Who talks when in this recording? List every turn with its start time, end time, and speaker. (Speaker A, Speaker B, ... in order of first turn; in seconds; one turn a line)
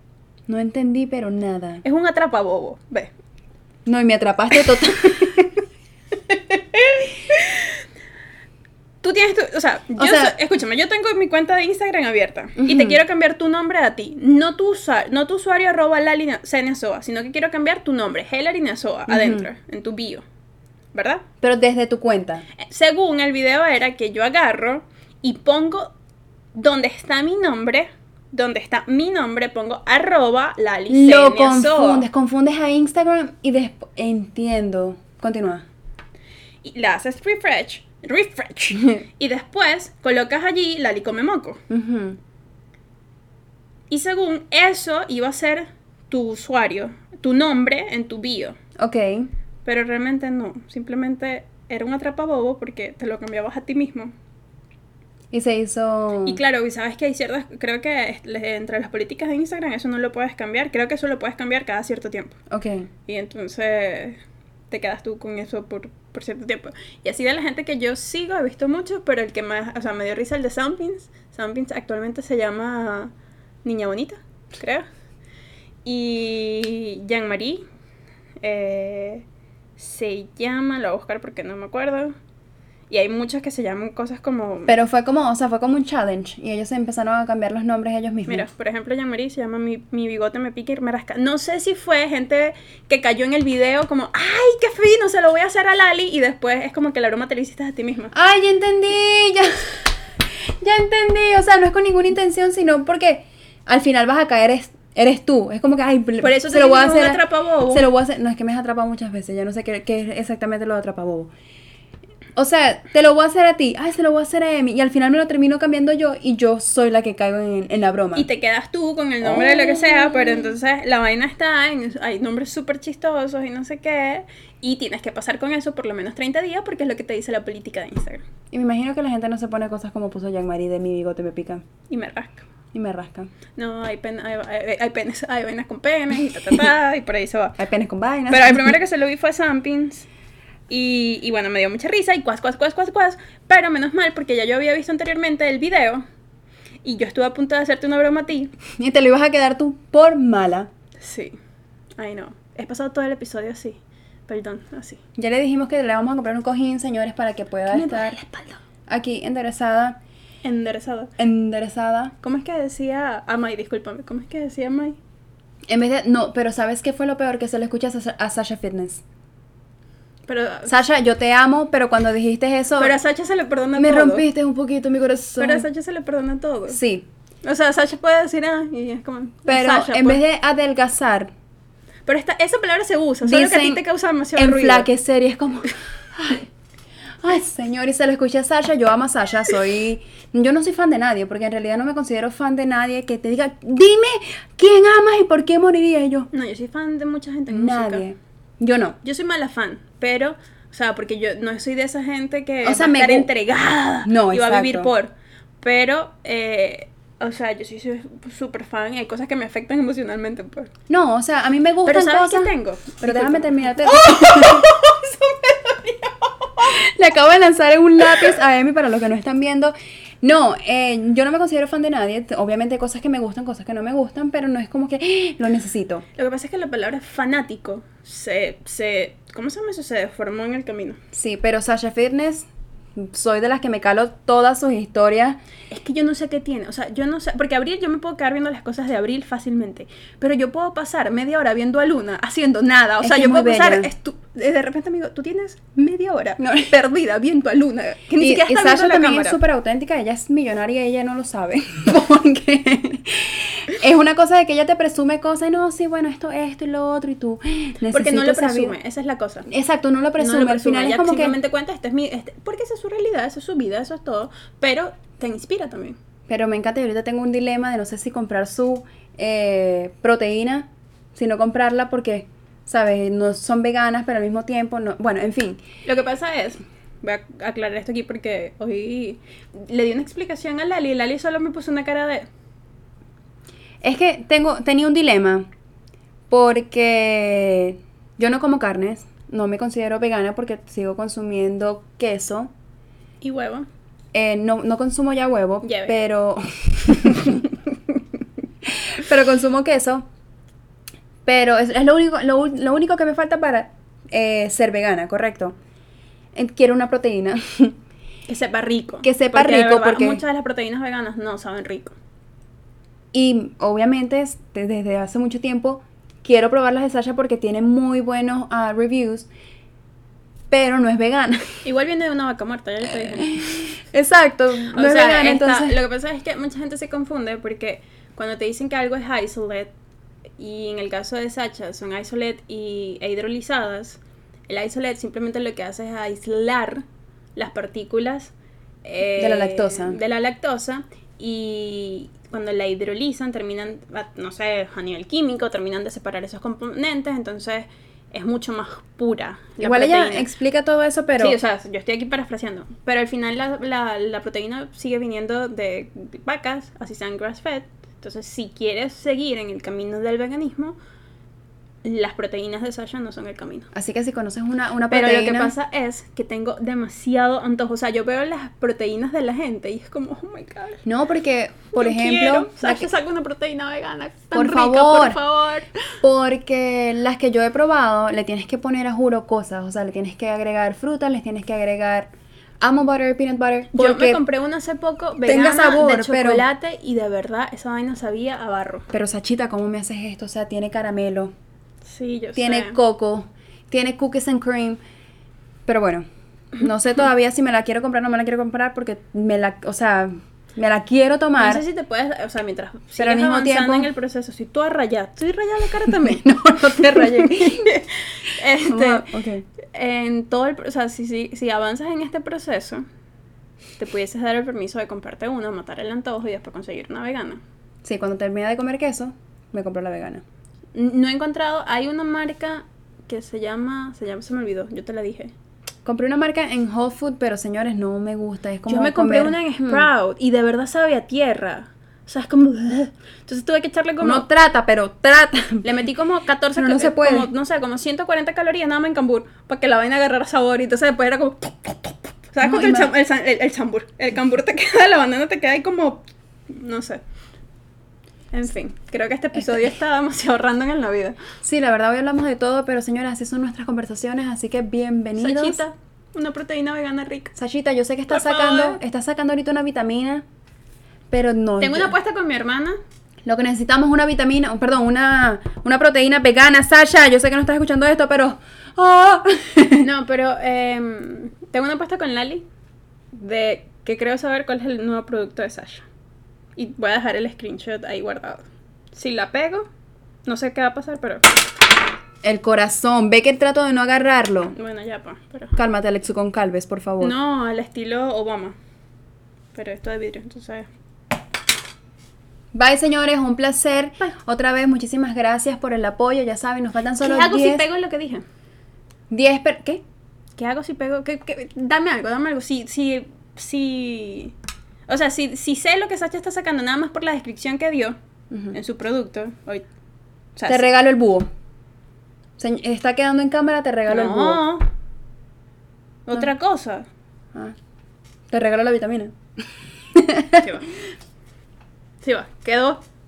Speaker A: 0.5-1.8
Speaker B: 1.8-3.1
Speaker A: 3.9-5.6
Speaker B: 6.3-7.8
Speaker B: 9.0-20.2
Speaker A: 10.0-10.3
Speaker A: 12.6-13.0
Speaker A: 19.1-19.5
Speaker B: 20.9-21.2
Speaker A: 21.4-22.4
Speaker B: 22.6-25.9
Speaker B: 26.6-32.1
Speaker A: 30.9-35.7
Speaker B: 36.6-41.6
Speaker A: 41.7-42.2
Speaker B: 43.9-48.6
Speaker A: 48.8-49.3
Speaker B: 49.6-54.1
Speaker A: 55.3-56.4
Speaker B: 56.2-62.4
Speaker A: 62.5-62.9
Speaker B: 63.1-64.2
Speaker B: 64.7-73.1
Speaker B: 73.7-74.8
Speaker B: 75.8-77.6
Speaker B: 78.4-79.2
Speaker B: 79.8-82.2
Speaker B: 82.9-84.8
Speaker A: 84.7-88.5
Speaker B: 88.3-98.1
Speaker A: 98.1-111.3
Speaker B: 106.2-107.9
Speaker A: 112.4-118.3
Speaker B: 118.2-128.2
Speaker A: 119.2-120.4
Speaker A: 128.5-131.6
Speaker B: 131.9-132.4
Speaker A: 132.7-133.3
Speaker B: 133.6-137.6
Speaker A: 137.6-138.8
Speaker B: 138.3-140.1
Speaker B: 140.7-146.0
Speaker B: 146.8-148.5
Speaker A: 148.7-150.7
Speaker B: 151.0-151.4
Speaker B: 152.0-155.0
Speaker A: 155.2-158.2
Speaker B: 157.7-158.6
Speaker A: 158.9-160.0
Speaker B: 160.4-161.1
Speaker A: 161.2-162.1
Speaker B: 162.2-165.0
Speaker A: 165.7-169.0
Speaker B: 170.3-170.7
Speaker A: 170.7-173.0
Speaker B: 172.8-174.2
Speaker A: 173.8-175.7
Speaker B: 175.4-176.8
Speaker A: 176.7-177.1
Speaker B: 177.4-180.2
Speaker A: 179.5-181.3
Speaker B: 182.1-184.9
Speaker A: 183.2-183.8
Speaker A: 184.4-186.5
Speaker A: 187.2-196.3
Speaker B: 196.3-198.1
Speaker A: 197.5-199.0
Speaker B: 199.0-210.7
Speaker A: 202.6-203.3
Speaker A: 204.1-204.9
Speaker A: 210.9-214.7
Speaker B: 211.8-216.7
Speaker A: 216.6-226.1
Speaker B: 226.2-231.0
Speaker A: 231.1-235.4
Speaker B: 235.7-249.4
Speaker A: 243.0-243.9
Speaker A: 246.4-246.7
Speaker A: 248.2-258.8
Speaker B: 257.9-259.5
Speaker A: 259.5-261.4
Speaker B: 260.2-266.0
Speaker A: 266.3-275.6
Speaker B: 275.9-282.3
Speaker A: 283.8-285.5
Speaker A: 286.3-292.5
Speaker B: 293.2-293.7
Speaker A: 294.1-297.4
Speaker B: 295.6-296.0
Speaker B: 297.1-297.5
Speaker A: 298.6-300.1
Speaker A: 301.2-305.6
Speaker A: 306.4-307.8
Speaker B: 308.3-311.9
Speaker A: 309.0-310.2
Speaker A: 313.1-319.3
Speaker A: 320.5-321.5
Speaker B: 321.6-323.8
Speaker A: 323.0-325.8
Speaker B: 324.7-329.7
Speaker B: 330.4-336.8
Speaker B: 337.4-338.3
Speaker B: 338.8-350.3
Speaker A: 339.2-340.0
Speaker A: 349.6-351.4
Speaker B: 351.2-360.8
Speaker B: 361.8-363.7
Speaker A: 363.7-365.5
Speaker B: 364.9-370.8
Speaker A: 370.9-372.9
Speaker B: 371.7-375.7
Speaker A: 374.3-375.2
Speaker A: 376.0-384.2
Speaker B: 383.7-388.9
Speaker A: 385.2-386.5
Speaker A: 388.9-391.3
Speaker B: 391.9-392.8
Speaker A: 392.4-394.8
Speaker A: 395.7-401.6
Speaker B: 401.4-409.1
Speaker A: 403.0-403.9
Speaker A: 406.2-407.6
Speaker A: 408.6-409.5
Speaker B: 409.6-412.8
Speaker B: 413.8-417.4
Speaker A: 417.8-420.2
Speaker B: 420.8-425.3
Speaker A: 425.9-429.9
Speaker B: 428.7-434.3
Speaker A: 434.0-435.7
Speaker B: 435.6-447.0
Speaker A: 436.6-437.3
Speaker A: 442.4-442.9
Speaker B: 448.3-451.2
Speaker A: 451.4-455.6
Speaker B: 455.2-457.3
Speaker A: 457.4-460.2
Speaker B: 458.1-458.8
Speaker A: 461.1-461.9
Speaker B: 461.6-462.8
Speaker A: 463.2-469.9
Speaker B: 469.8-472.4
Speaker B: 473.1-475.9
Speaker B: 476.6-479.7
Speaker B: 480.3-481.3
Speaker A: 482.2-484.6
Speaker B: 484.5-485.6
Speaker A: 485.6-487.1
Speaker B: 487.0-488.6
Speaker B: 489.5-490.7
Speaker A: 492.5-497.6
Speaker B: 497.0-498.2
Speaker A: 499.1-499.8
Speaker B: 500.4-504.3
Speaker B: 504.9-508.0
Speaker A: 508.3-508.6
Speaker B: 508.5-509.6
Speaker B: 510.4-510.7
Speaker A: 510.5-511.3
Speaker A: 512.4-514.4
Speaker B: 513.9-514.7
Speaker B: 516.1-516.9
Speaker A: 518.3-519.1
Speaker A: 519.9-520.5
Speaker B: 520.4-520.7
Speaker B: 522.0-522.8